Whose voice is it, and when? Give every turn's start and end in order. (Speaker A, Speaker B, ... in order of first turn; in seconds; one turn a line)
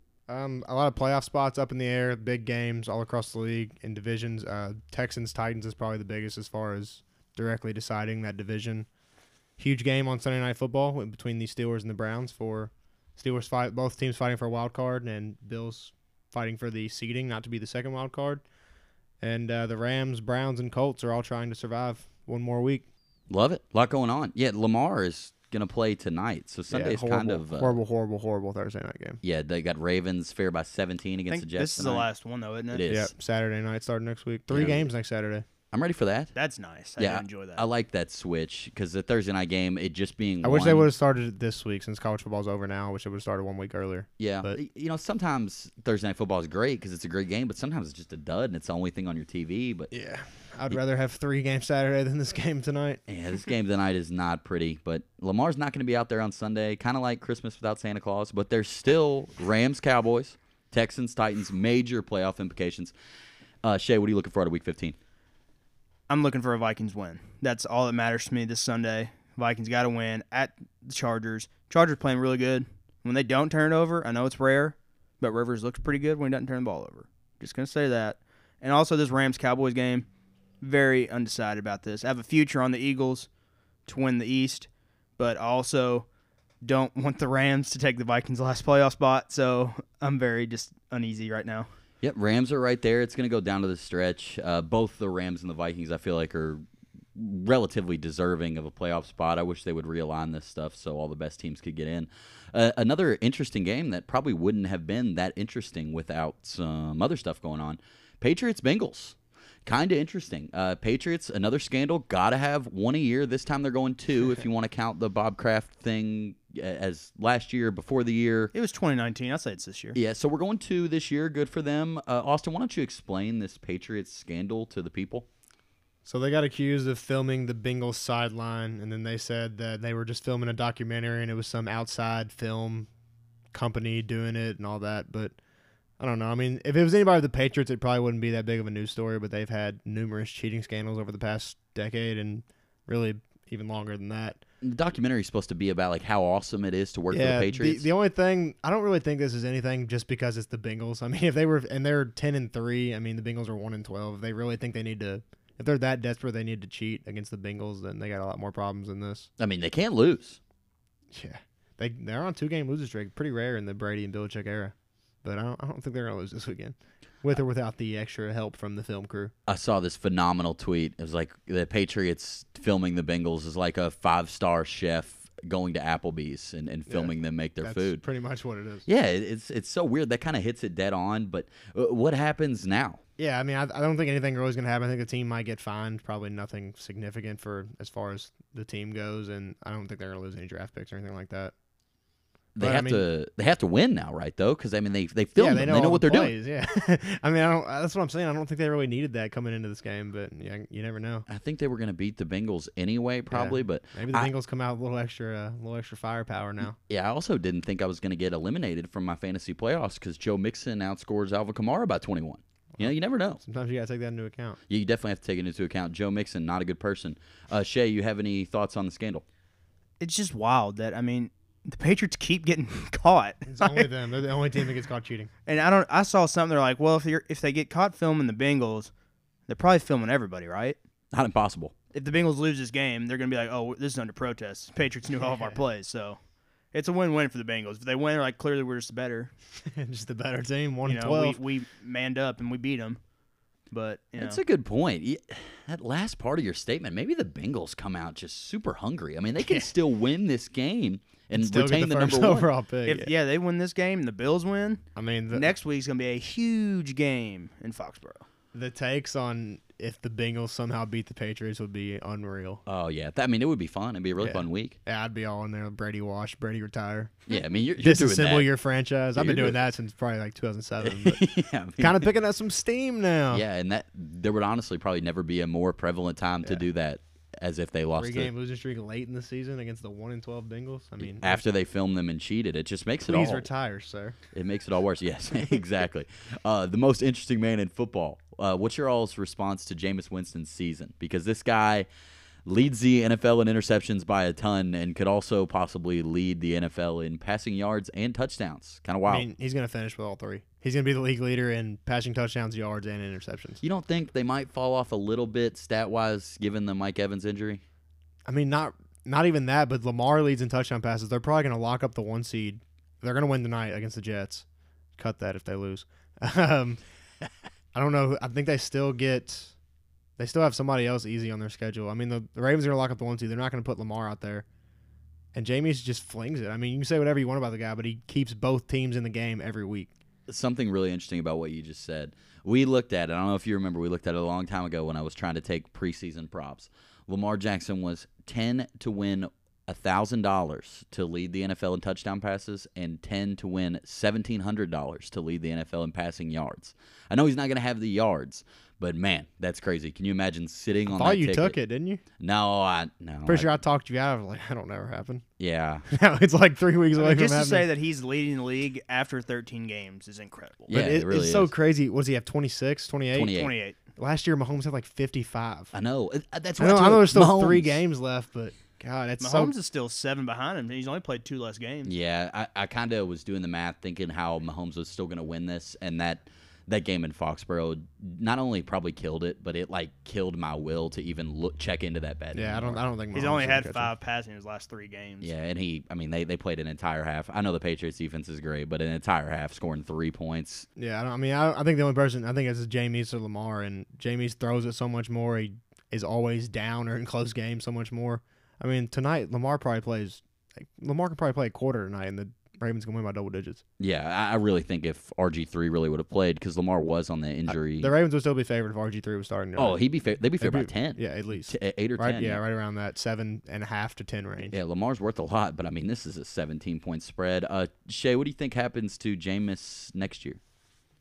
Speaker A: 0.3-8.9
Speaker A: 9.6-18.4
Speaker A: 19.2-22.9
Speaker B: 23.3-27.8
Speaker A: 26.7-29.2
Speaker B: 29.2-32.1
Speaker C: 31.3-32.8
Speaker B: 32.7-33.1
Speaker A: 32.9-35.5
Speaker B: 34.5-34.9
Speaker B: 35.7-36.3
Speaker C: 36.4-37.6
Speaker B: 37.0-40.9
Speaker A: 40.4-44.6
Speaker B: 44.2-49.9
Speaker A: 49.9-53.0
Speaker B: 53.1-62.9
Speaker B: 63.6-65.0
Speaker C: 66.1-80.1
Speaker C: 80.6-83.3
Speaker C: 83.9-86.1
Speaker C: 86.6-91.7
Speaker B: 92.0-96.6
Speaker B: 97.2-118.5
Speaker C: 118.5-120.0
Speaker B: 120.0-125.3
Speaker A: 126.0-132.9
Speaker A: 133.5-135.4
Speaker A: 136.0-144.4
Speaker B: 144.6-147.9
Speaker A: 147.1-159.3
Speaker B: 159.4-160.4
Speaker A: 161.1-169.3
Speaker B: 169.5-178.0
Speaker A: 176.9-178.9
Speaker B: 178.9-183.0
Speaker A: 183.2-191.5
Speaker B: 192.6-196.3
Speaker A: 192.6-193.0
Speaker A: 195.4-201.2
Speaker B: 201.3-204.3
Speaker A: 203.3-206.8
Speaker B: 206.9-213.4
Speaker A: 212.8-214.6
Speaker B: 214.7-219.2
Speaker C: 220.0-223.9
Speaker A: 223.5-225.3
Speaker C: 225.5-228.9
Speaker C: 229.5-230.8
Speaker B: 231.1-231.7
Speaker C: 231.9-236.2
Speaker A: 235.2-235.6
Speaker C: 236.7-239.3
Speaker A: 239.7-241.4
Speaker C: 240.8-243.0
Speaker C: 243.7-244.4
Speaker B: 244.2-252.5
Speaker A: 249.4-249.7
Speaker A: 251.3-253.1
Speaker C: 252.9-258.2
Speaker A: 255.0-255.5
Speaker A: 258.5-262.6
Speaker B: 262.7-264.8
Speaker A: 264.2-267.2
Speaker B: 267.3-268.5
Speaker A: 267.8-271.2
Speaker B: 269.1-269.6
Speaker B: 270.8-272.1
Speaker A: 271.8-273.4
Speaker B: 273.3-278.3
Speaker A: 278.0-281.4
Speaker B: 281.0-283.5
Speaker A: 283.1-284.2
Speaker B: 284.3-291.9
Speaker B: 292.5-299.3
Speaker A: 299.1-303.6
Speaker B: 303.6-307.6
Speaker A: 308.3-314.4
Speaker A: 315.0-316.8
Speaker A: 317.7-319.5
Speaker A: 320.2-324.5
Speaker A: 325.3-329.9
Speaker B: 330.3-351.6
Speaker A: 350.9-352.0
Speaker B: 352.2-353.5
Speaker A: 353.3-355.2
Speaker B: 355.4-355.9
Speaker A: 355.9-357.7
Speaker C: 357.0-360.7
Speaker B: 360.7-361.5
Speaker A: 360.7-363.4
Speaker B: 363.1-363.5
Speaker C: 363.3-363.8
Speaker A: 364.0-365.7
Speaker B: 365.7-367.8
Speaker A: 366.6-369.5
Speaker C: 369.2-371.9
Speaker B: 371.9-382.8
Speaker A: 382.4-383.9
Speaker C: 383.1-385.3
Speaker B: 385.2-390.7
Speaker A: 390.8-403.6
Speaker B: 403.8-407.9
Speaker A: 407.5-409.8
Speaker B: 409.6-412.4
Speaker A: 410.4-414.6
Speaker B: 414.5-420.4